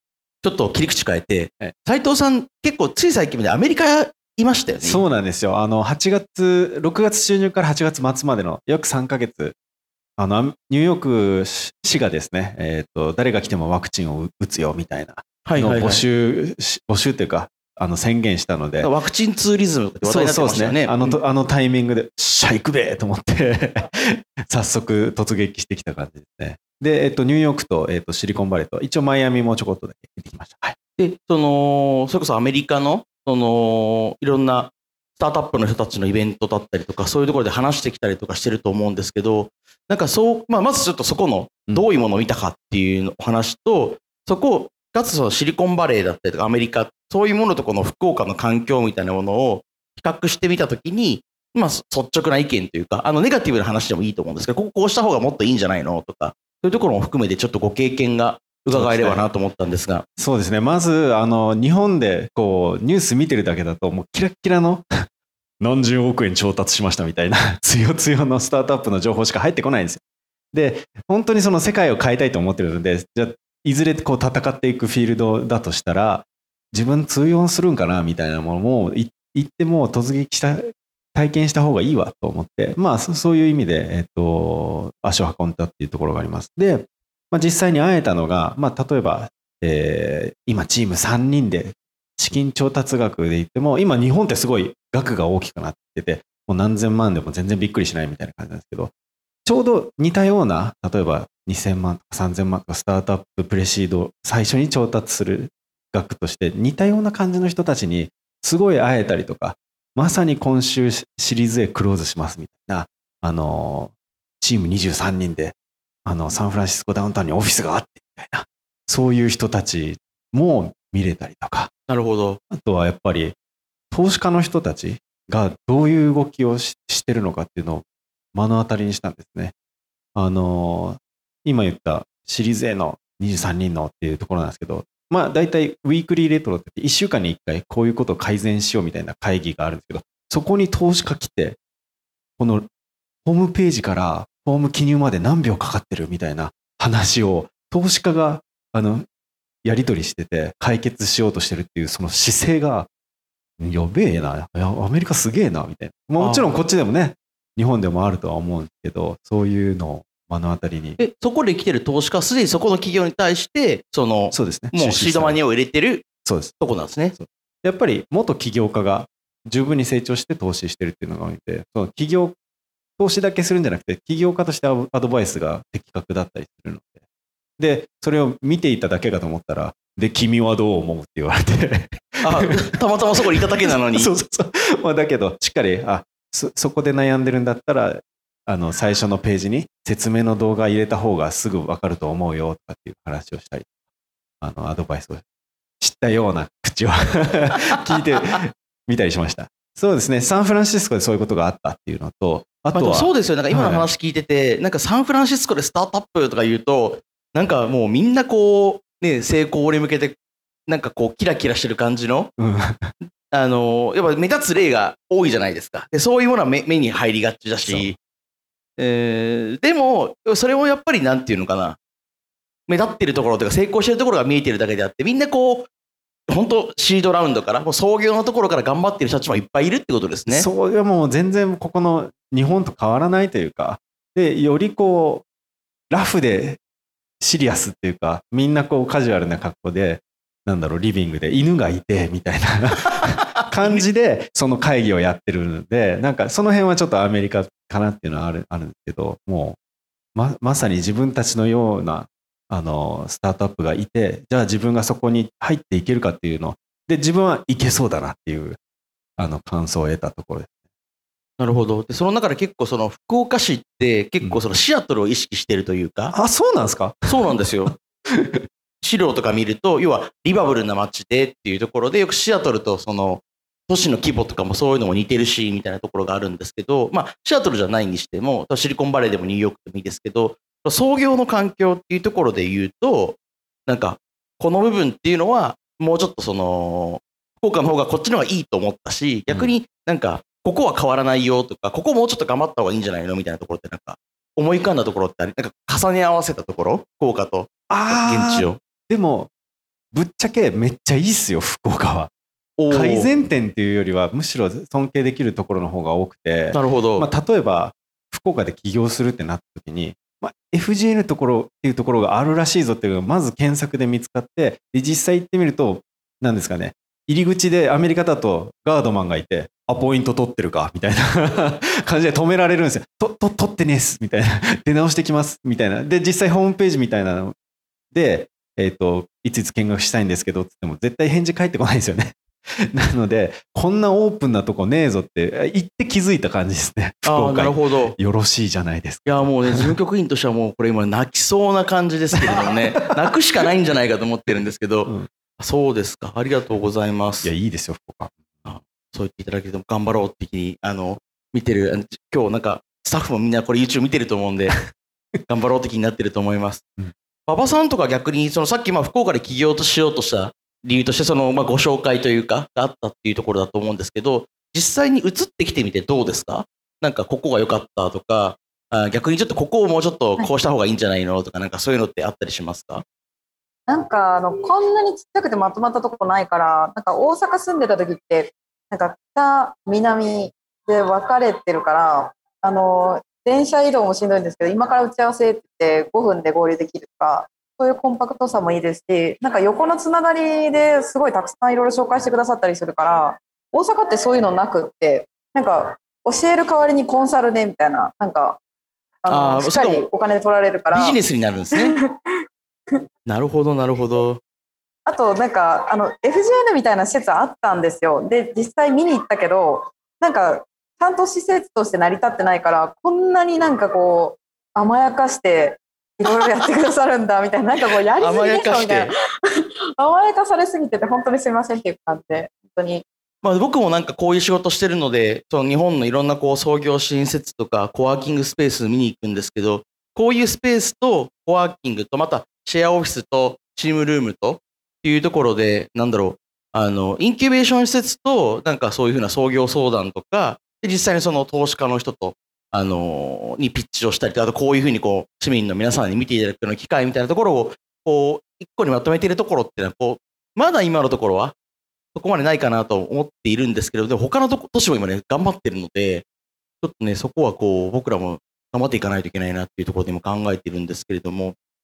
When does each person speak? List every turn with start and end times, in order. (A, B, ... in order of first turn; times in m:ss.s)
0:00.4-0:05.0 A
0:04.8-0:09.6 B
0:10.2-0:18.9 B
0:15.4-0:16.0 A
0:18.8-0:21.2 A
0:20.0-0:30.8 B
0:31.0-1:00.0 A
0:58.7-0:59.2 B
1:00.2-1:04.9 B
1:05.6-1:10.0 B
1:10.5-1:38.9 B
1:39.4-2:01.7 B
2:01.9-2:02.4 A
2:02.5-2:03.4 B
2:03.9-2:09.5 B
2:10.1-2:21.6 B
2:22.4-2:22.7 B
2:23.2-2:29.0 B
2:29.6-2:32.9 B
2:33.6-2:41.0 B
2:36.2-2:36.6 A
2:41.0-2:46.0 A
2:44.3-2:45.4 B
2:46.2-2:52.3 B
2:46.6-2:47.1 A
2:53.0-2:57.0 B
2:57.6-3:02.6 B
3:02.2-3:04.1 A
3:03.9-3:13.7 B
3:14.4-3:15.2 B
3:15.8-3:23.9 B
3:22.7-3:32.3 A
3:32.4-3:32.9 B
3:33.3-3:38.0 A
3:37.6-3:38.0 B
3:38.8-3:41.8 A
3:42.7-3:45.7 A
3:46.3-3:50.5 A
3:50.3-3:55.2 B
3:55.9-3:56.6 B
3:57.2-4:09.6 B
4:10.1-4:18.6 B
4:19.2-4:20.5 B
4:21.4-4:26.1 A
4:26.1-4:28.4 B
4:27.1-4:27.7 A
4:28.8-4:58.6 A
4:57.7-4:59.3 B
4:59.9-5:02.1 B
5:02.6-5:03.1 A
5:02.7-5:27.3 B
5:06.5-5:07.0 A
5:27.9-5:39.7 B
5:37.1-5:38.0 A
5:39.0-5:47.3 A
5:42.1-5:42.9 B
5:47.2-5:48.2 B
5:48.4-5:54.6 A
5:55.3-5:56.6 A
5:57.3-6:12.8 A
6:13.7-6:38.4 C
6:39.0-6:41.0 C
6:39.1-6:39.8 A
6:40.7-6:41.7 A
6:41.6-6:41.9 C
6:43.1-6:44.2 A
6:44.8-6:58.9 C
6:58.0-6:58.9 A
6:59.8-7:02.8 C
7:03.2-7:31.3 A
7:31.9-7:36.0 A
7:36.6-7:41.3 A